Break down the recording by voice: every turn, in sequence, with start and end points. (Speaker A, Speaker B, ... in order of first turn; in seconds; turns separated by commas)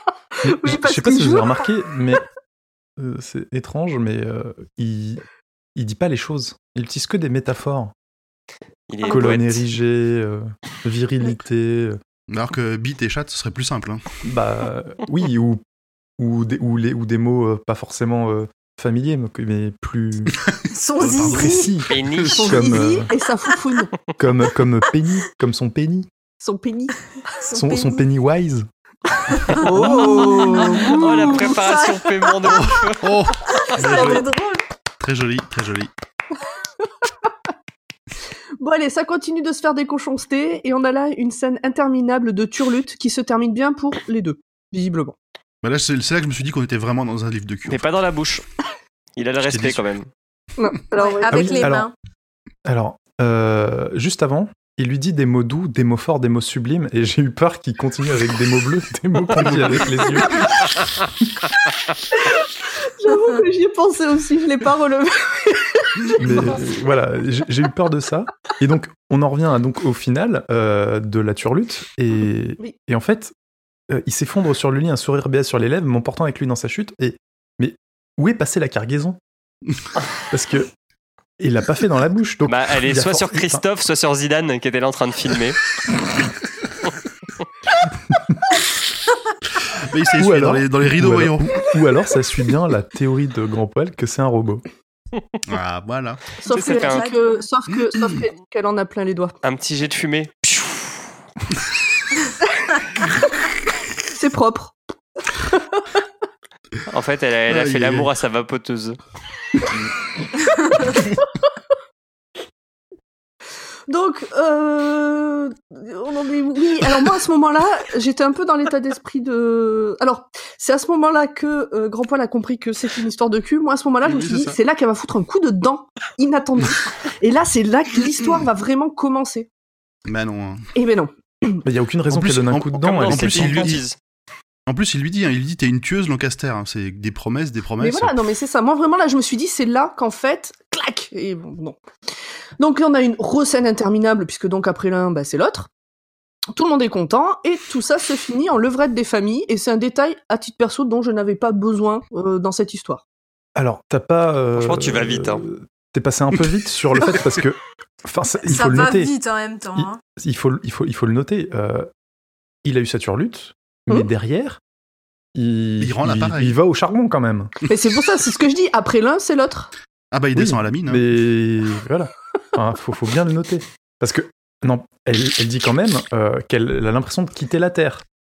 Speaker A: 0.4-1.7, Speaker B: 0.4-2.2, Speaker B: 3.0-5.2, Speaker B: 5.8-7.9, Speaker C: 8.9-9.6, Speaker B: 9.1-12.0, Speaker D: 12.3-14.1, Speaker B: 14.2-15.6, Speaker B: 16.2-20.3, Speaker E: 20.7-21.7, Speaker D: 21.0-22.3, Speaker B: 21.0-23.1, Speaker C: 21.9-22.8, Speaker A: 22.3-23.9, Speaker B: 24.2-26.1, Speaker A: 26.4-27.0, Speaker E: 27.3-28.1, Speaker B: 27.5-28.7, Speaker E: 29.2-32.9, Speaker A: 29.6-31.5, Speaker C: 30.3-34.1, Speaker D: 32.5-34.3, Speaker E: 33.5-34.6, Speaker D: 35.0-35.9, Speaker A: 38.6-45.2, Speaker D: 45.6-47.8, Speaker C: 47.7-48.4, Speaker C: 49.2-50.1, Speaker D: 49.4-49.8, Speaker A: 50.6-51.7, Speaker E: 51.0-51.9, Speaker B: 51.3-51.9, Speaker B: 52.6-60.5, Speaker D: 59.4-60.2, Speaker A: 62.2-66.6, Speaker B: 66.2-73.3, Speaker B: 73.9-79.2, Speaker B: 80.3-80.7, Speaker B: 81.4-83.6, Speaker C: 82.5-85.6, Speaker D: 89.8-91.7, Speaker B: 90.2-94.6, Speaker D: 95.5-96.3, Speaker A: 96.4-99.3, Speaker C: 96.5-97.0, Speaker E: 96.5-97.5, Speaker D: 97.7-98.1, Speaker C: 99.4-101.0, Speaker A: 104.1-104.8, Speaker A: 105.3-105.9, Speaker C: 106.9-109.0, Speaker D: 107.5-108.1, Speaker E: 110.6-110.8, Speaker A: 113.9-129.5, Speaker D: 124.0-124.6, Speaker D: 130.1-130.7, Speaker A: 130.8-131.7, Speaker B: 131.7-133.8, Speaker D: 132.1-133.8, Speaker C: 132.8-134.0, Speaker D: 134.7-138.2, Speaker A: 137.8-141.8, Speaker A: 142.6-145.7, Speaker A: 146.5-153.0, Speaker B: 153.6-159.1, Speaker C: 154.6-155.5, Speaker E: 158.5-160.0, Speaker B: 159.8-161.9, Speaker B: 162.6-164.6, Speaker B: 165.3-167.5, Speaker D: 165.8-166.6, Speaker A: 167.7-169.7, Speaker D: 170.1-171.0, Speaker B: 170.3-178.0